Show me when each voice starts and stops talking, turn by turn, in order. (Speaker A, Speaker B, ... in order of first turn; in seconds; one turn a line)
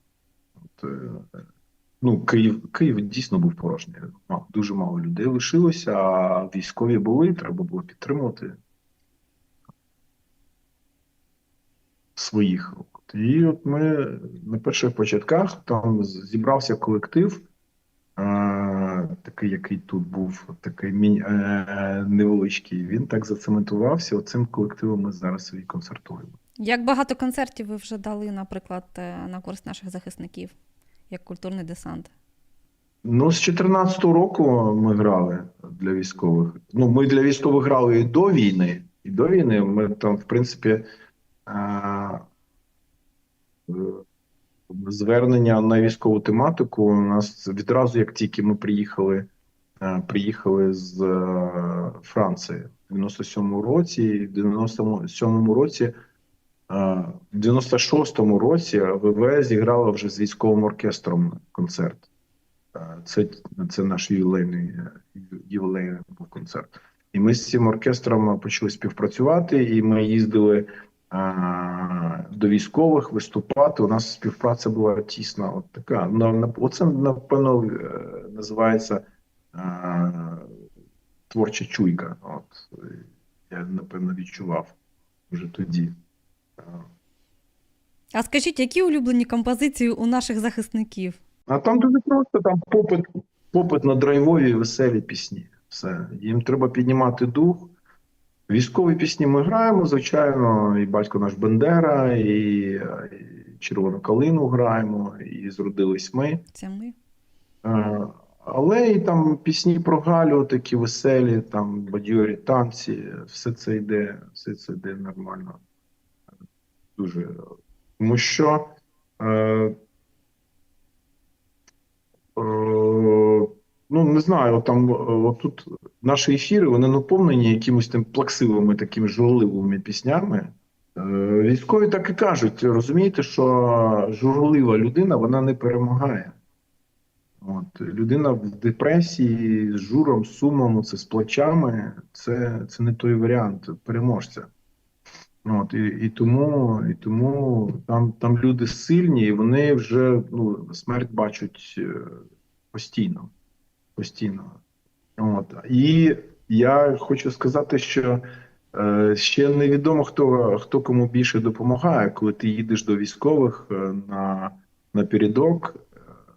Speaker A: 0.7-1.4
Speaker A: 2.0-8.6
Speaker A: 12.2-17.5
Speaker A: 18.2-26.3
Speaker B: 26.6-30.6
Speaker B: 31.1-32.1
Speaker A: 33.0-40.9
Speaker A: 41.5-42.2
Speaker A: 43.7-44.0
Speaker A: 44.7-49.3
Speaker A: 49.8-56.0
Speaker A: 56.7-62.1
Speaker A: 62.8-80.5
Speaker A: 81.3-84.8
Speaker A: 85.3-86.0
Speaker A: 86.6-86.8
Speaker B: 88.1-91.2
Speaker A: 91.5-97.7
Speaker A: 98.5-106.4
Speaker B: 106.5-107.0
Speaker A: 107.6-115.6
Speaker A: 117.0-117.5
Speaker A: 118.0-119.8
Speaker A: 122.4-136.3
Speaker A: 137.4-144.5
Speaker A: 145.4-152.2
Speaker A: 152.7-153.3
Speaker A: 154.0-154.6
Speaker A: 155.2-165.9